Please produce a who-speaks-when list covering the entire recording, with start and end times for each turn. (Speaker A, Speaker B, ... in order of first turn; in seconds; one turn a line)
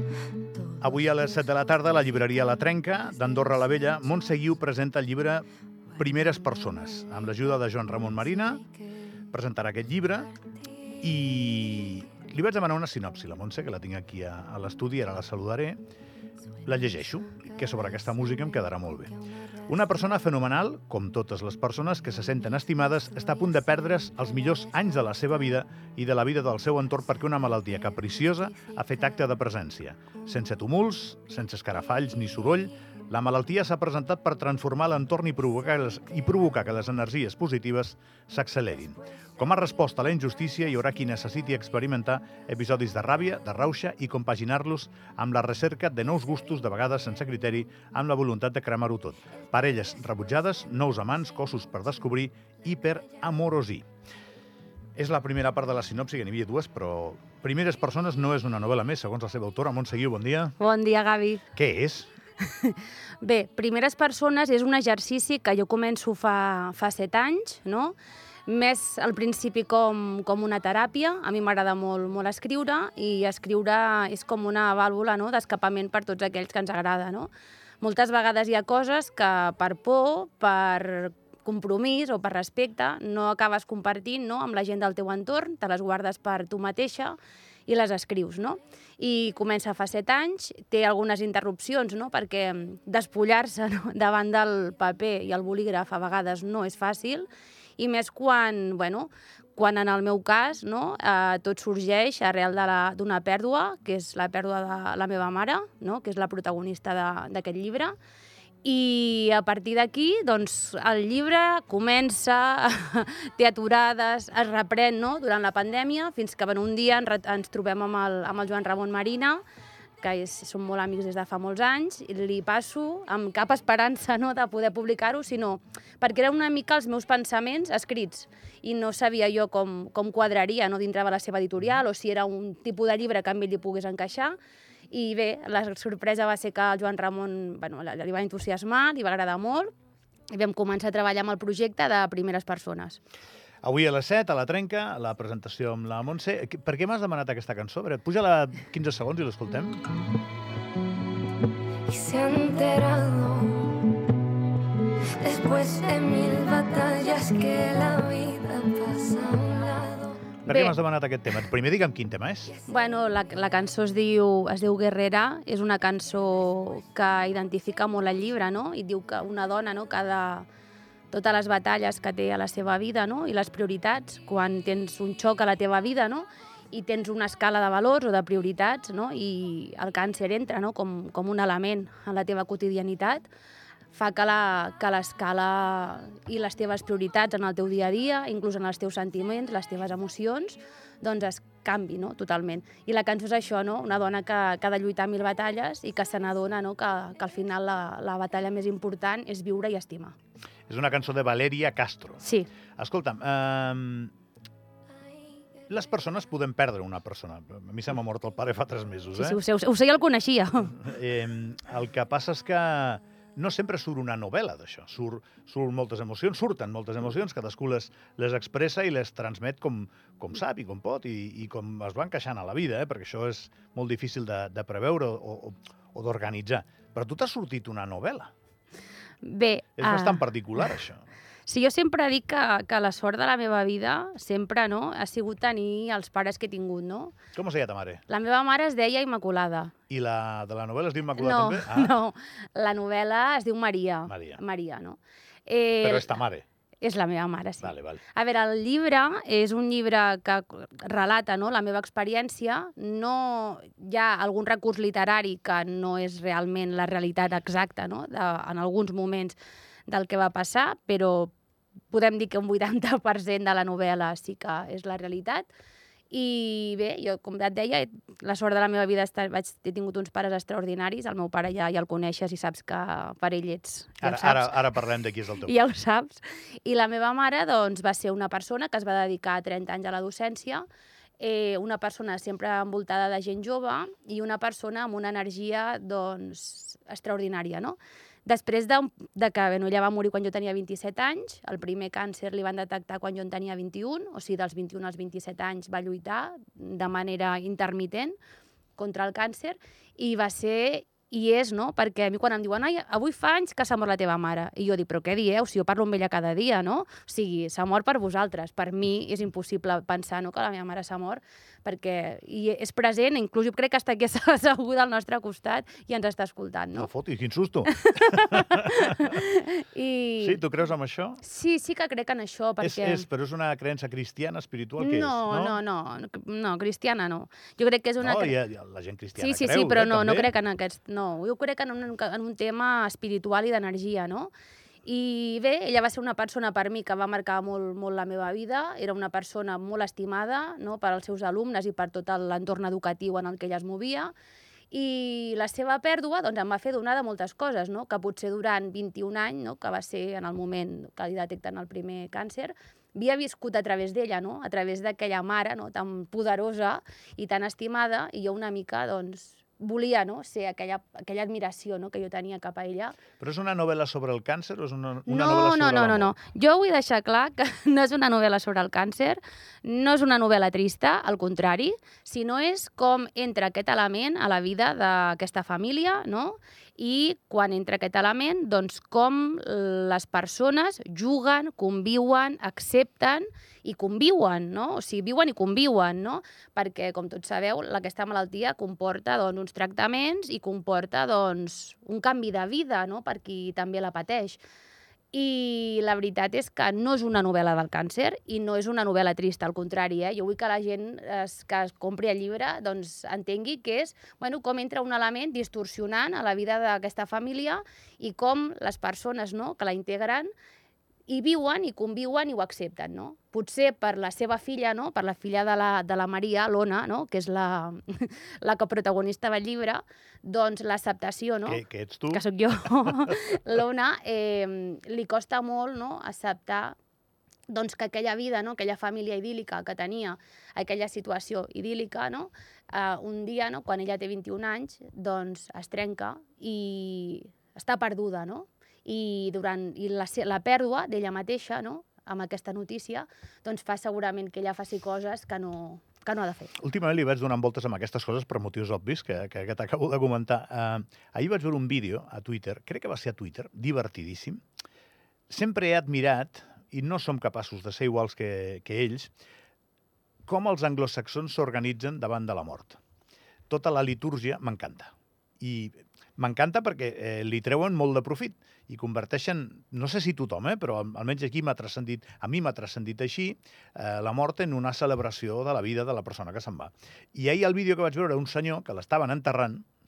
Speaker A: 0.8-8.7
Speaker A: 9.3-10.4
Speaker A: 11.0-15.8
Speaker A: 16.6-53.9
Speaker A: 55.0-60.5
Speaker B: 60.6-61.5
Speaker A: 61.6-62.1
Speaker B: 62.4-68.0
Speaker B: 68.5-77.3
Speaker B: 77.8-108.0
Speaker B: 108.6-119.4
Speaker B: 120.0-134.4
Speaker B: 134.9-139.7
Speaker B: 140.3-143.0
Speaker A: 143.6-149.8
Speaker C: 151.8-154.1
Speaker C: 155.1-160.2
Speaker A: 160.4-162.5
Speaker B: 160.5-160.8
Speaker B: 162.6-170.5
Speaker B: 171.1-183.3
Speaker B: 183.9-200.2
Speaker A: 200.7-202.2
Speaker B: 202.2-202.5
Speaker A: 202.8-204.1
Speaker A: 205.7-209.4
Speaker B: 209.2-210.8
Speaker A: 210.7-228.3
Speaker B: 229.2-230.7
Speaker A: 229.8-231.1
Speaker B: 231.5-237.2
Speaker A: 237.3-238.0
Speaker B: 238.1-239.7
Speaker A: 239.9-241.9
Speaker B: 241.1-246.2
Speaker A: 244.1-244.4
Speaker A: 245.8-246.4
Speaker B: 246.8-261.3
Speaker A: 247.6-248.0
Speaker B: 261.9-265.5
Speaker B: 266.1-274.8
Speaker A: 274.0-275.5
Speaker B: 275.4-280.6
Speaker B: 281.2-298.2
Speaker B: 298.8-316.9
Speaker A: 316.8-319.1
Speaker B: 317.7-320.4
Speaker A: 320.2-321.2
Speaker B: 321.2-323.1
Speaker A: 322.6-325.6
Speaker B: 324.8-328.4
Speaker A: 328.0-330.3
Speaker B: 329.2-334.3
Speaker B: 334.9-344.1
Speaker B: 344.7-363.0
Speaker A: 363.2-366.1
Speaker B: 365.1-394.4
Speaker B: 395.1-410.3
Speaker B: 411.1-426.8
Speaker A: 421.5-422.2
Speaker B: 427.5-446.5
Speaker A: 446.6-454.4
Speaker A: 455.3-459.1
Speaker A: 460.3-462.8
Speaker A: 463.5-479.6